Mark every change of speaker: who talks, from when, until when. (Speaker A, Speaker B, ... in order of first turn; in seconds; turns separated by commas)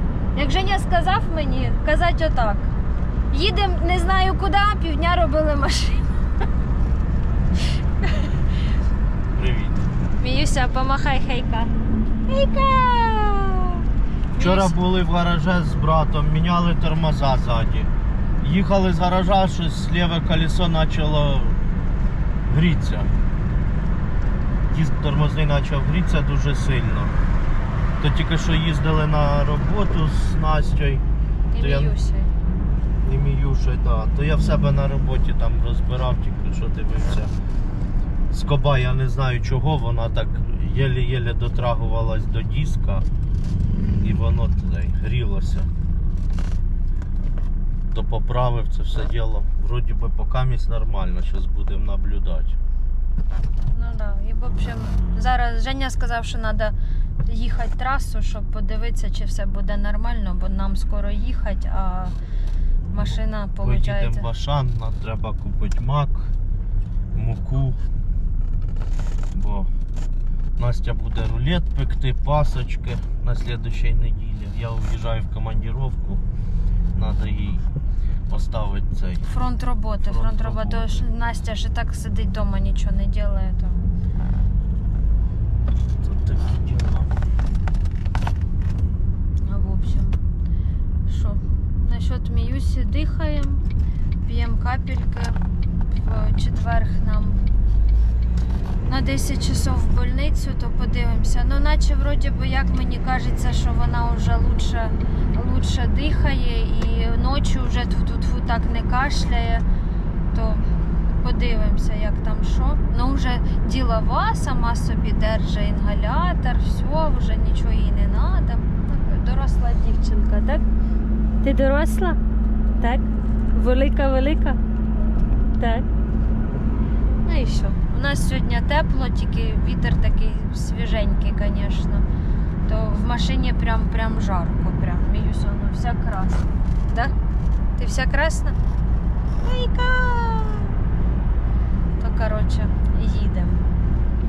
Speaker A: 0.3-2.7, Speaker A: 3.3-6.1, Speaker A: 8.0-8.5, Speaker B: 9.3-9.8, Speaker A: 10.2-11.7, Speaker A: 12.3-13.8, Speaker A: 14.3-14.8, Speaker B: 14.4-21.6, Speaker B: 22.5-23.1, Speaker B: 24.7-27.1, Speaker B: 28.0-31.0, Speaker A: 31.5-32.3, Speaker B: 31.6-31.9, Speaker B: 33.0-37.3, Speaker B: 38.3-43.0, Speaker B: 44.0-45.7, Speaker B: 47.9-52.6, Speaker A: 53.7-62.1, Speaker A: 62.9-64.3, Speaker B: 62.9-66.3, Speaker B: 67.1-67.8, Speaker B: 69.3-69.7, Speaker B: 70.6-76.2, Speaker B: 76.9-77.7, Speaker B: 78.3-79.2, Speaker A: 79.2-83.8, Speaker B: 80.0-81.0, Speaker B: 86.0-87.1, Speaker A: 89.4-90.2, Speaker A: 91.0-93.6, Speaker A: 94.2-97.4, Speaker A: 98.9-109.6, Speaker A: 110.3-110.7, Speaker A: 111.2-120.7, Speaker A: 121.4-122.2, Speaker A: 122.8-124.6, Speaker A: 125.6-125.9, Speaker A: 127.2-132.0, Speaker A: 132.7-137.1, Speaker A: 137.8-138.6, Speaker A: 139.4-140.8, Speaker A: 142.0-143.6